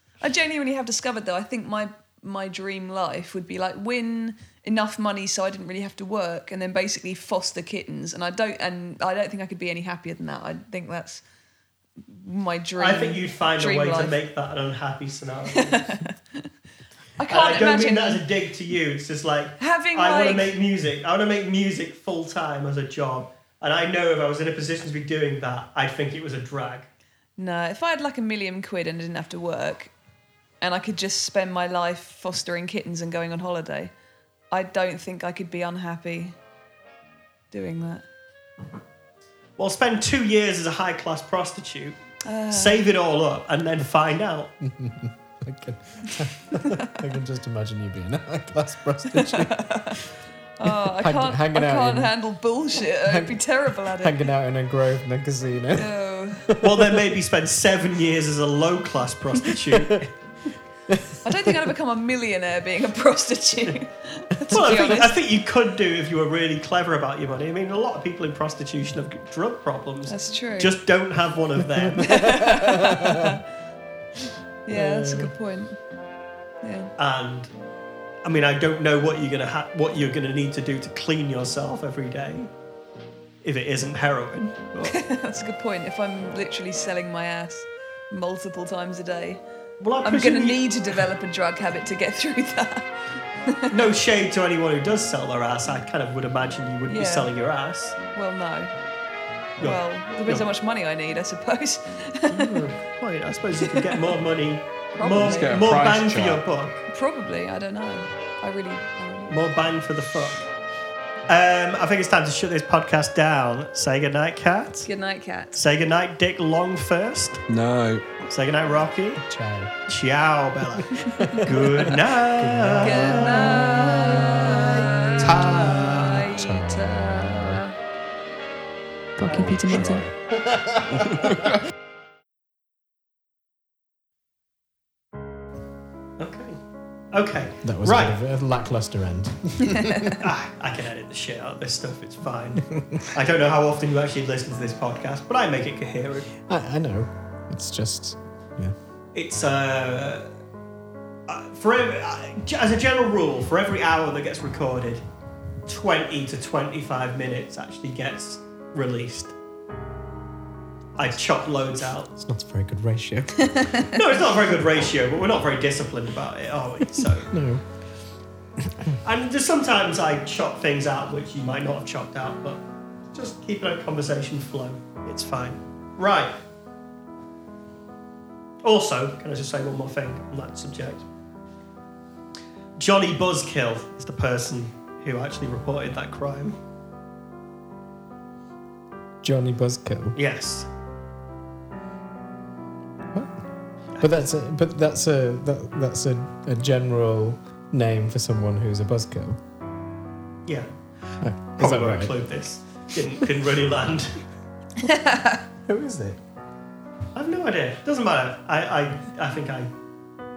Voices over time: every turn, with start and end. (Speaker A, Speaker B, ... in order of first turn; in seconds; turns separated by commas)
Speaker A: 0.2-11.2, Speaker A: 12.1-14.2, Speaker B: 12.8-15.8, Speaker A: 15.5-16.5, Speaker A: 17.2-18.2, Speaker B: 17.3-26.9, Speaker A: 19.6-20.6, Speaker A: 27.4-29.9, Speaker A: 30.6-33.9, Speaker A: 34.5-36.4, Speaker A: 37.5-38.0, Speaker B: 39.6-42.0, Speaker A: 42.2-42.8, Speaker B: 42.5-44.5, Speaker C: 44.6-50.1, Speaker A: 49.1-50.0, Speaker A: 50.6-54.3, Speaker C: 50.6-52.1, Speaker C: 52.8-57.1, Speaker A: 55.7-56.5, Speaker B: 56.6-60.0, Speaker C: 59.6-60.1, Speaker C: 60.9-61.7, Speaker A: 61.2-65.1, Speaker C: 64.5-64.8, Speaker B: 64.5-72.2, Speaker A: 70.1-70.7, Speaker C: 71.8-73.4, Speaker A: 72.0-73.4, Speaker A: 74.6-75.8, Speaker C: 74.7-75.3, Speaker A: 76.6-76.9, Speaker B: 77.0-77.5, Speaker B: 78.2-82.5, Speaker B: 83.4-84.9, Speaker A: 84.8-89.4, Speaker B: 89.8-91.0, Speaker A: 90.0-92.9, Speaker A: 93.5-93.8, Speaker B: 93.7-98.0, Speaker A: 96.9-97.3, Speaker A: 98.1-98.7, Speaker B: 99.6-100.4, Speaker A: 99.6-102.6, Speaker B: 102.3-106.8, Speaker A: 103.7-104.1, Speaker A: 104.9-105.8, Speaker D: 105.1-106.4, Speaker A: 106.9-109.4, Speaker B: 109.3-110.5, Speaker B: 111.3-114.9, Speaker A: 114.8-115.6, Speaker B: 115.5-117.4, Speaker D: 117.5-118.2, Speaker B: 118.3-119.2, Speaker C: 119.2-119.7, Speaker B: 119.9-123.8, Speaker C: 120.8-127.6, Speaker A: 121.1-121.4, Speaker A: 122.8-127.7, Speaker B: 125.2-126.2, Speaker A: 129.2-130.0, Speaker B: 129.2-130.0, Speaker D: 129.3-130.1, Speaker C: 129.8-131.5, Speaker D: 130.9-131.6, Speaker B: 136.2-136.6, Speaker B: 137.1-138.1, Speaker C: 137.6-140.2, Speaker A: 139.6-140.2, Speaker B: 140.1-146.3, Speaker C: 146.4-148.7, Speaker B: 149.1-150.3, Speaker B: 151.3-155.0, Speaker B: 155.7-159.3, Speaker B: 160.9-162.1, Speaker C: 162.1-163.7, Speaker A: 163.5-163.9, Speaker B: 163.9-167.3, Speaker C: 166.9-167.6, Speaker C: 168.6-169.0, Speaker B: 169.0-172.6, Speaker B: 173.1-176.3, Speaker B: 178.6-181.1, Speaker B: 182.8-186.6, Speaker C: 189.2-190.2, Speaker B: 190.1-190.7, Speaker C: 194.0-199.4, Speaker C: 201.2-202.2, Speaker B: 201.6-204.2, Speaker A: 204.8-205.4, Speaker C: 205.7-206.2, Speaker B: 207.1-209.7